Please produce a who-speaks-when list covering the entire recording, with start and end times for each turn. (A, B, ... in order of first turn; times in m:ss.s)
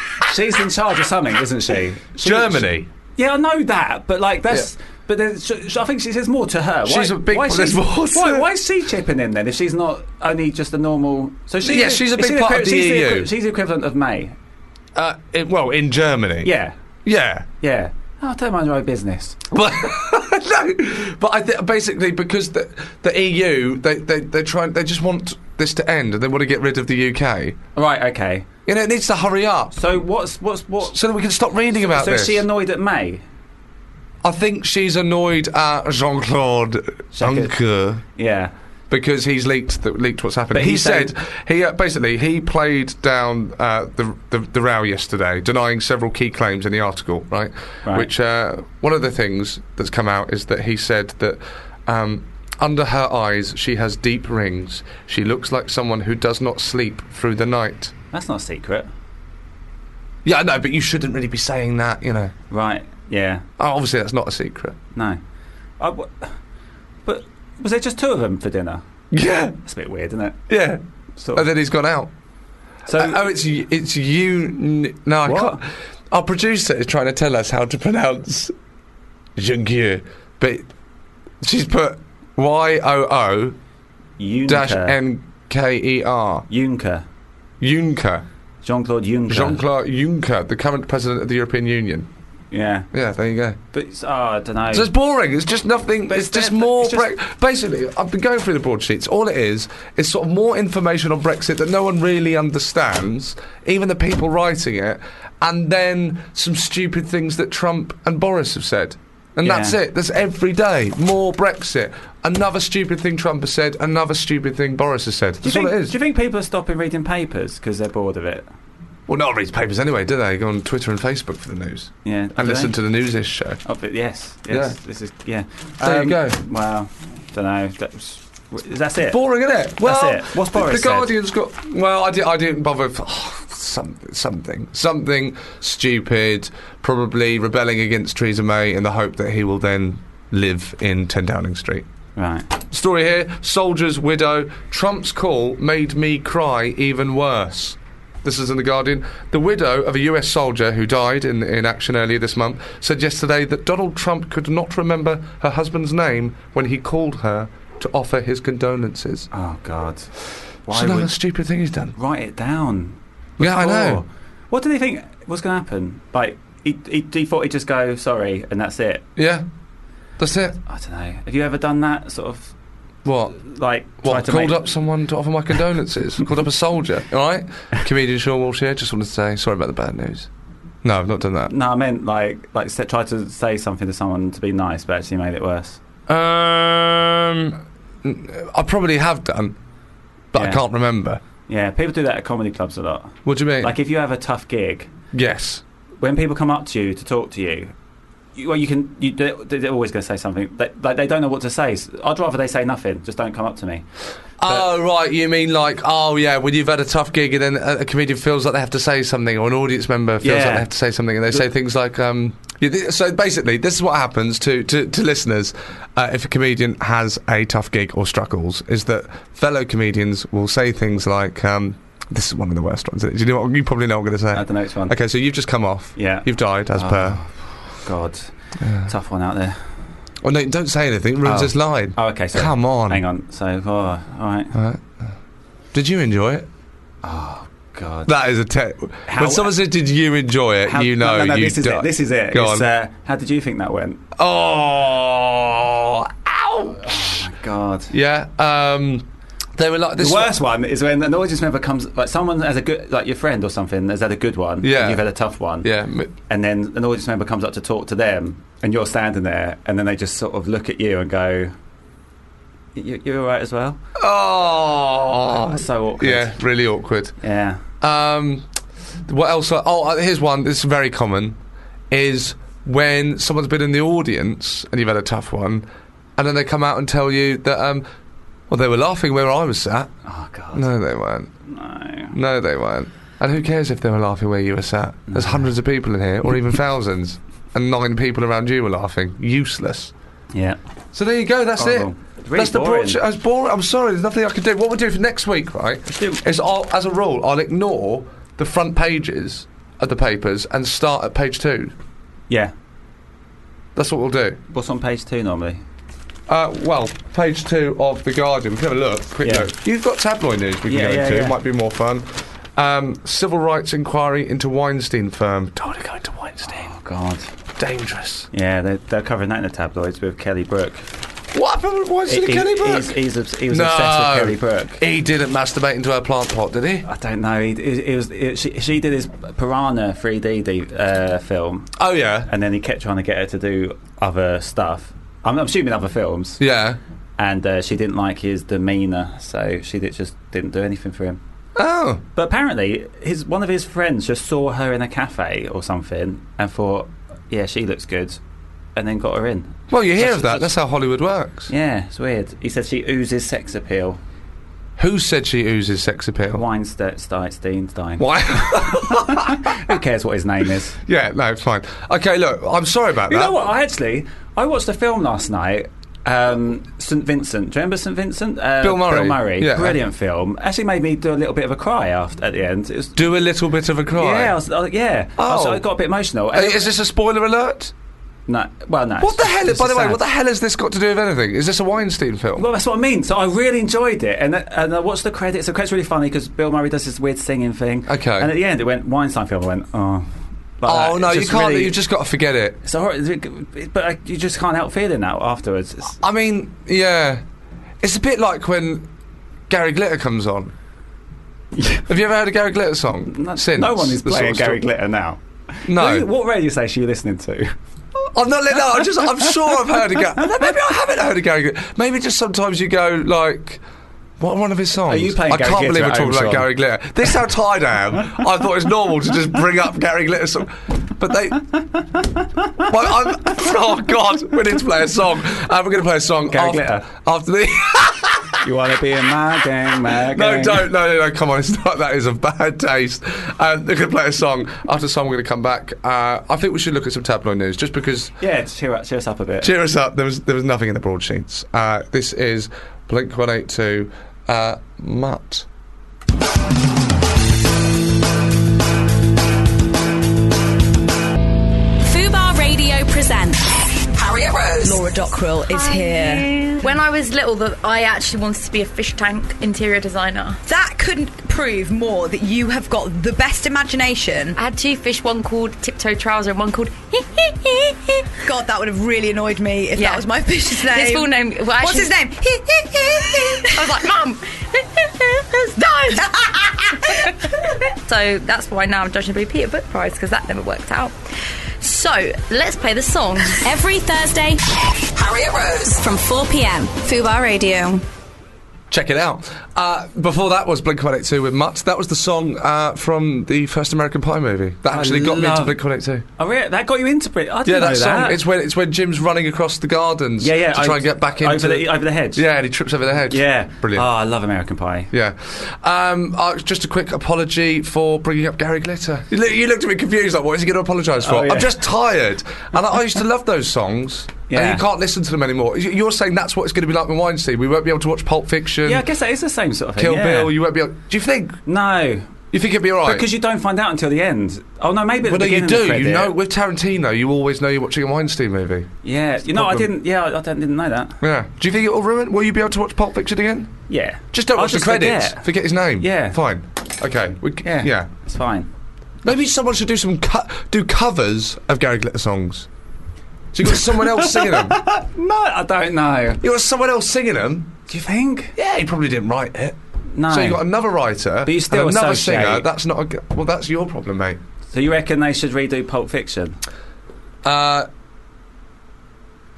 0:00.2-0:14.3 A
0:02.2-0:02.9 B
0:06.8-0:08.5 B
0:11.6-0:13.3 B
0:15.0-0:16.5 B
0:16.4-0:16.8 A
0:17.0-0:17.5 B
0:17.6-0:19.4 A
0:19.5-0:27.6 B
0:27.8-0:28.5 A
0:28.7-0:29.8 B
0:29.7-0:31.0 A
0:30.8-0:32.4 B
0:31.8-0:33.2 A
0:34.2-0:38.0 B
0:37.1-0:37.6 A
0:38.2-0:38.5 A
0:38.9-0:57.9 B
0:40.5-0:41.1 A
0:58.1-0:58.9 A
1:00.2-1:02.3 B
1:02.5-1:03.4 A
1:03.6-1:04.8 B
1:05.0-1:05.2 A
1:05.8-1:06.4 A
1:07.0-1:08.8 A
1:09.1-1:09.6 B
1:09.6-1:10.4 A
1:10.5-1:10.8 B
1:11.2-1:11.5 A
1:11.3-1:12.1 B
1:12.9-1:13.3 A
1:12.9-1:18.5 B
1:15.2-1:15.6 A
1:19.4-1:20.7 B
1:21.4-1:23.6 B
1:24.2-1:25.0 A
1:24.5-1:26.5 B
1:26.5-1:27.0 A
1:27.6-1:28.2 B
1:28.6-1:29.6 A
1:29.3-1:32.1 B
1:32.5-1:32.9 A
1:32.9-1:33.6 B
1:33.7-1:34.9 A
1:34.7-1:56.0 B
1:36.1-1:37.1 A
1:49.4-1:49.8 A
1:55.4-1:58.5 A
1:59.1-2:03.6 B
2:02.0-2:02.8 A
2:03.6-2:09.2 A
2:04.5-2:04.8 B
2:05.8-2:06.4 B
2:09.1-2:21.9 B
2:09.8-2:11.1 A
2:22.2-2:22.5 A
2:22.7-2:39.3 B
2:39.3-2:40.1 A
2:40.7-2:41.1 A
2:40.7-2:42.0 B
2:42.0-2:49.0 A
2:43.4-2:44.0 B
2:49.2-2:49.4 B
2:50.2-2:50.6 B
2:50.7-2:52.5 A
2:53.0-2:53.4 B
2:53.4-2:54.7 A
2:54.0-3:00.3 B
3:00.8-3:01.5 B
3:01.5-3:05.8 A
3:06.1-3:09.6 B
3:10.3-3:11.2 B
3:10.4-3:10.6 A
3:11.5-3:14.9 A
3:13.2-3:13.7 B
3:15.1-3:15.6 B
3:16.0-3:17.7 A
3:18.4-3:23.9 A
3:24.4-3:47.2 B
3:30.2-3:30.7 A
3:44.3-3:45.0 A
3:46.0-3:48.3 A
3:48.6-3:48.9 B
3:48.8-3:49.6 A
3:50.2-3:53.0 B
3:51.2-3:54.6 A
3:54.5-3:55.1 B
3:55.7-3:56.5 B
3:57.0-3:58.1 A
3:58.1-4:02.7 B
3:59.1-3:59.6 A
4:00.7-4:04.0 A
4:04.2-4:07.3 B
4:06.8-4:07.9 A
4:07.9-4:10.4 B
4:10.0-4:15.7 A
4:14.6-4:15.0 B
4:15.6-4:16.1 B
4:16.3-4:21.5 A
4:22.8-4:23.8 A
4:24.0-4:27.2 B
4:25.4-4:26.4 A
4:27.2-4:27.6 A
4:27.8-4:28.5 B
4:29.1-4:31.4 B
4:31.9-4:35.7 B
4:36.2-4:37.8 B
4:38.5-4:39.9 B
4:40.1-4:40.7 A
4:40.5-4:41.3 B
4:41.5-4:42.2 A
4:42.1-4:49.9 B
4:45.1-4:45.5 A
4:50.3-4:50.6 A
4:50.9-5:01.7 B
4:51.6-4:53.0 A
4:55.9-4:56.2 A
5:03.8-5:04.4 B
5:04.5-5:05.6 A
5:06.3-5:16.7 B
5:09.2-5:09.5 A
5:10.7-5:11.4 A
5:16.4-5:17.3 A
5:17.6-5:18.3 B
5:18.3-5:20.9 A
5:21.3-5:26.9 B
5:22.1-5:24.8 A
5:26.8-5:31.7 A
5:31.8-5:32.3 B
5:32.3-5:36.4 A
5:36.4-5:36.8 B
5:37.2-5:41.2 A
5:41.6-5:42.0 B
5:42.2-5:48.2 A
5:48.8-5:50.6 A
5:49.7-5:51.5 B
5:51.5-5:54.0 A
5:54.8-5:56.4 B
5:56.3-6:00.8 A
5:58.0-5:59.6 B
6:00.8-6:03.4 B
6:03.1-6:13.0 A
6:08.6-6:09.8 B
6:13.0-6:14.4 B
6:13.9-6:16.7 A
6:15.2-6:15.7 B
6:16.3-6:17.7 B
6:18.3-6:20.0 A
6:19.0-6:22.5 B
6:22.4-6:30.1 A
6:27.9-6:28.3 B
6:30.6-6:31.8 A
6:30.6-6:32.6 B
6:32.6-6:36.0 A
6:36.0-6:37.2 B
6:37.8-6:38.9 B
6:39.5-6:40.5 B
6:41.6-6:41.8 A
6:41.9-6:44.6 B
6:43.1-6:47.5 A
6:45.7-6:46.1 B
6:48.1-6:53.6 B
6:49.0-6:50.5 A
6:54.2-7:01.4 B
6:54.9-6:56.5 A
7:01.6-7:02.6 A
7:02.6-7:08.4 B
7:06.3-7:06.9 A
7:08.4-7:10.7 A
7:09.9-7:18.1 B
7:18.2-7:19.5 A
7:19.4-7:25.5 B
7:31.8-7:34.8 C
7:34.6-7:36.8 D
7:35.5-7:40.4 E
7:40.5-7:44.4 D
7:44.4-7:48.0 E
7:48.2-7:53.7 D
7:49.8-7:52.0 E
7:53.5-7:56.0 E
7:55.6-7:57.3 D
7:56.9-8:00.9 E
8:01.6-8:03.4 E
8:03.4-8:07.8 C
8:08.7-8:16.0 B
8:14.7-8:15.6 A
8:16.2-8:18.2 A
8:17.4-8:23.9 B
8:20.2-8:22.2 A
8:23.1-8:24.9 A
8:24.9-8:38.9 B
8:31.0-8:31.6 A
8:34.3-8:34.6 A
8:38.6-8:40.4 A
8:39.8-8:41.4 B
8:41.5-8:42.1 A
8:42.3-8:43.1 B
8:42.8-8:46.1 A
8:45.0-8:48.7 B
8:48.8-8:51.0 A
8:49.3-8:49.7 B
8:51.0-8:53.6 B
8:53.7-8:55.3 A
8:54.1-8:57.9 B
8:55.8-8:56.2 A
8:57.4-8:58.5 A
8:59.0-9:02.5 B
9:03.3-9:04.6 B
9:03.4-9:06.2 A
9:06.2-9:07.5 B
9:07.7-9:08.3 A
9:08.4-9:14.2 B
9:09.9-9:10.4 A
9:11.2-9:12.5 A
9:14.5-9:16.4 A
9:17.2-9:17.7 B